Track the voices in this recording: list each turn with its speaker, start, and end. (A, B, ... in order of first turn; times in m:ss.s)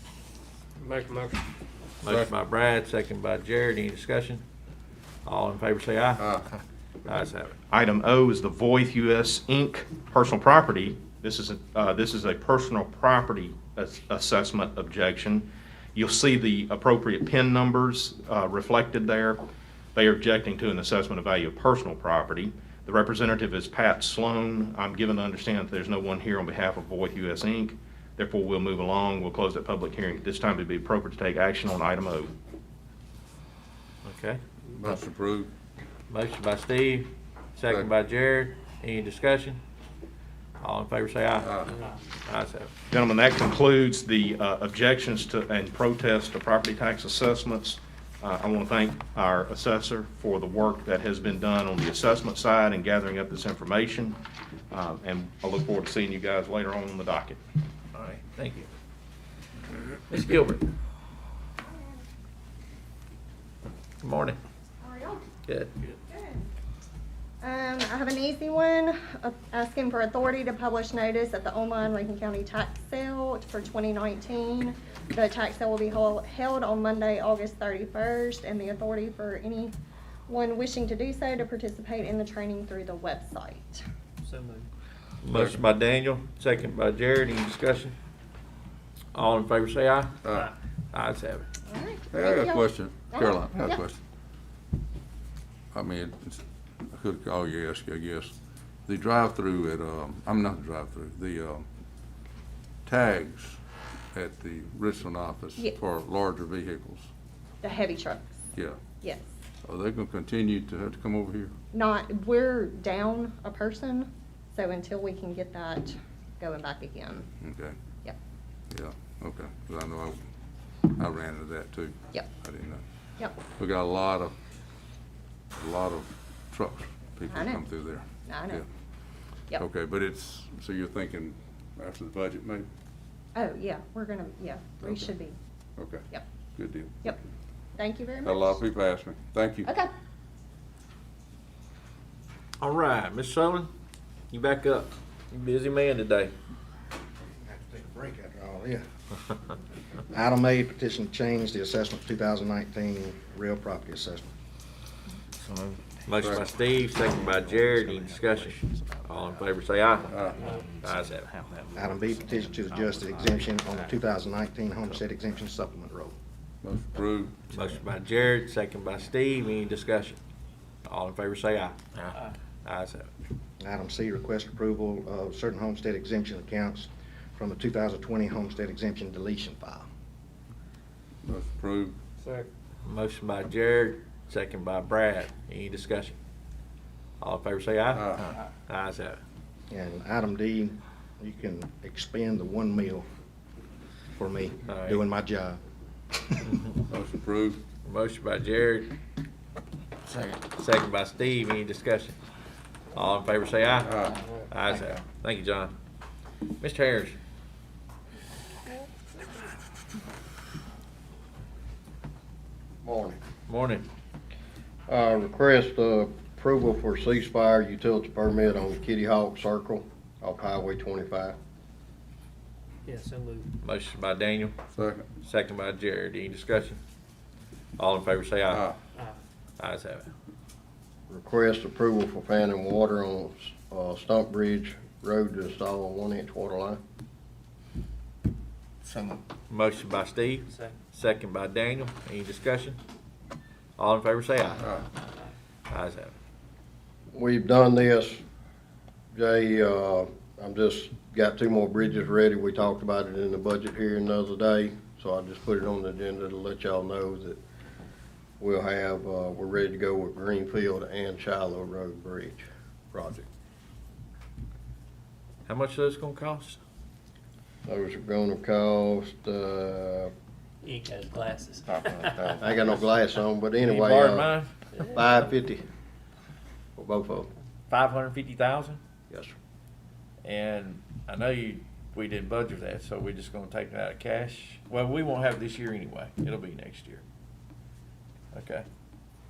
0:00.8-0:01.4 A
0:02.0-0:04.4 B
0:02.0-0:02.3 C
0:05.2-0:06.3 B
0:07.1-0:07.6 B
0:07.7-0:19.4 D
0:20.0-0:32.3 D
0:34.0-0:34.4 B
0:34.8-0:35.5 C
0:36.1-0:39.6 B
0:40.6-0:41.7 B
0:41.4-0:41.7 C
0:42.2-0:42.7 B
0:42.9-0:54.2 D
0:54.7-0:57.4 D
0:57.9-0:58.7 B
1:00.1-1:00.7 B
1:01.6-1:02.0 E
1:04.0-1:04.4 B
1:04.8-1:05.3 E
1:05.5-1:05.8 B
1:06.1-1:06.5 E
1:07.4-1:19.8 E
1:20.3-1:23.8 E
1:24.2-1:24.7 A
1:25.2-1:28.0 B
1:25.3-1:25.6 C
1:29.1-1:30.1 B
1:30.2-1:30.5 C
1:30.9-1:31.5 B
1:31.6-1:33.8 E
1:32.1-1:34.0 C
1:35.7-1:36.4 C
1:36.9-1:38.3 C
1:38.9-1:41.6 C
1:42.9-1:43.6 C
1:44.1-1:47.1 C
1:47.6-1:48.4 E
1:49.0-1:49.3 E
1:49.6-1:51.5 C
1:51.7-1:57.3 E
1:57.4-1:57.8 C
1:58.7-2:00.2 C
2:00.9-2:02.8 C
2:03.5-2:04.4 C
2:05.6-2:08.7 C
2:07.3-2:07.6 E
2:08.2-2:08.6 E
2:09.6-2:12.7 C
2:13.4-2:15.4 E
2:14.8-2:15.1 C
2:15.8-2:17.0 C
2:17.8-2:18.6 E
2:18.2-2:19.7 C
2:19.6-2:19.9 E
2:22.6-2:23.7 B
2:24.3-2:26.3 B
2:27.4-2:28.8 F
2:30.1-2:34.3 F
2:35.4-2:44.0 E
2:36.1-2:40.2 B
2:36.2-2:36.5 C
2:40.1-2:40.5 C
2:40.7-2:41.3 B
2:41.8-2:46.2 F
2:46.6-2:47.4 C
2:47.5-2:47.8 E
2:47.5-2:50.2 B
2:50.9-2:51.8 B
2:52.6-2:53.1 B
2:53.6-2:59.9 F
3:01.2-3:02.0 C
3:02.2-3:02.5 A
3:02.8-3:06.2 B
3:07.2-3:08.1 B
3:07.9-3:08.3 C
3:08.7-3:09.2 B
3:09.7-3:13.1 F
3:14.2-3:15.6 F
3:14.7-3:15.0 B
3:16.9-3:17.6 C
3:17.8-3:18.9 B
3:20.5-3:22.2 B
3:23.0-3:25.7 B
3:23.8-3:24.2 C
3:26.6-3:27.2 B
3:32.8-3:33.2 G
3:33.5-3:33.9 B
3:34.9-3:41.4 G
3:42.8-3:43.5 A
3:43.6-3:44.6 B
3:44.7-3:45.1 C
3:45.2-3:46.8 B
3:47.8-3:48.6 B
3:48.5-3:48.8 C
3:49.6-3:50.1 B
3:51.1-3:56.8 G
3:59.5-4:02.8 B
4:03.8-4:04.7 B
4:05.7-4:06.1 B
4:07.1-4:08.2 G
4:09.1-4:17.4 G
4:18.4-4:23.3 G
4:25.5-4:26.6 B
4:27.7-4:30.1 G
4:30.6-4:32.4 A
4:32.4-4:35.6 G
4:33.6-4:34.5 B
4:36.8-4:37.3 G
4:37.7-4:38.8 B
4:39.1-4:39.4 G
4:40.2-4:47.0 B
4:48.3-4:48.6 B